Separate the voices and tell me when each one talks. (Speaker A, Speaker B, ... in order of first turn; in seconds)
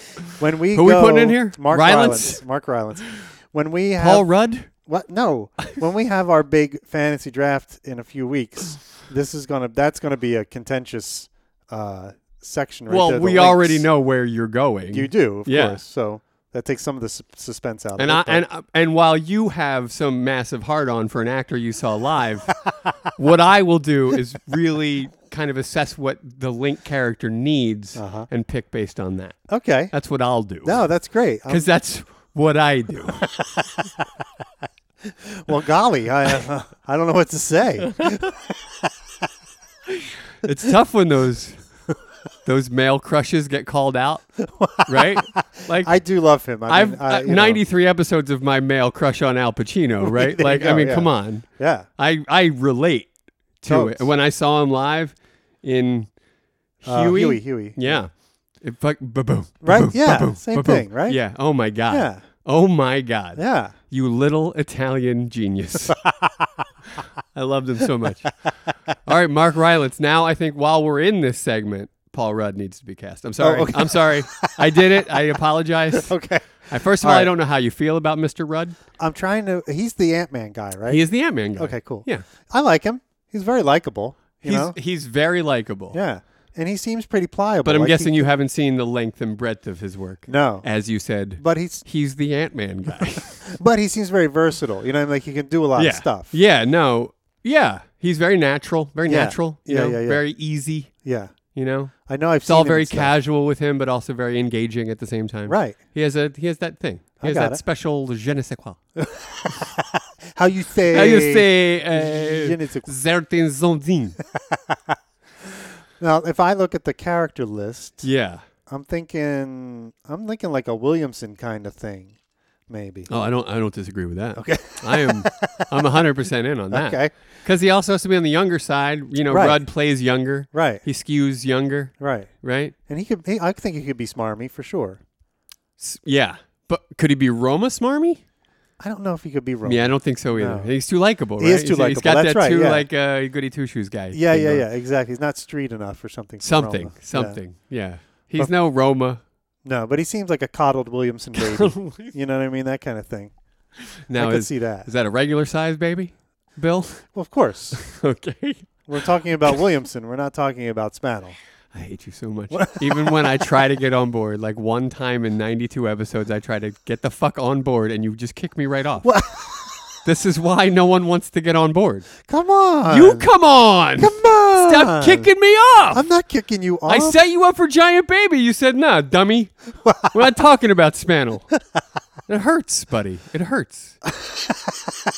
Speaker A: 0.2-2.4, 4.0-4.7, 12.9-15.8, 18.0-22.5, 23.1-29.4, 29.9-30.8, 31.5-33.3, 37.8-38.3, 39.9-41.6, 42.4-44.2, 44.8-45.9, 46.7-51.5, 52.0-56.1, 56.8-66.0, 67.3-68.3, 69.0-76.1, 76.7-78.8, 80.9-82.2, 84.4-86.0, 87.6-93.4, 95.8-100.9, 101.5-101.9, 102.5-108.8, 110.9-114.2, 118.0-118.4, 123.1-132.7, 135.8-138.2, 139.6-144.6, 146.4-149.2, 151.3-152.1, 154.1-157.1, 157.7-158.7, 161.7-169.1, 170.0-172.1, 172.9-176.0, 176.9-181.5, 182.3-183.9
Speaker B: 0.3-13.9, 14.9-18.4, 27.9-28.3, 29.5-29.9, 30.6-31.7, 33.5-34.0, 35.1-38.9, 44.4-47.6, 50.0-51.9, 53.7-54.1, 56.8-58.0, 59.6-61.2, 61.9-62.2, 63.4-63.7, 65.8-66.7, 73.4-75.4, 75.9-77.3, 79.0-81.0, 81.6-84.8, 85.9-88.3, 90.3-90.7, 91.4-91.8, 93.3-96.3, 99.0-100.2, 101.0-101.3, 102.0-103.1, 105.5-105.8, 107.2-107.6, 109.0-112.9, 114.3-114.9, 116.0-118.1, 118.7-122.1, 122.7-123.1, 124.3-126.0, 126.7-127.1, 129.3-129.6, 130.5-130.8, 132.0-132.3, 132.9-135.0, 138.8-140.7, 141.4-142.8, 144.1-147.4, 149.6-153.3, 154.2-154.9, 157.1-157.8, 158.9-161.3, 162.5-163.4, 169.0-169.8, 172.2-173.3, 174.0-175.3, 175.9-177.2, 179.8-180.2, 184.1-185.1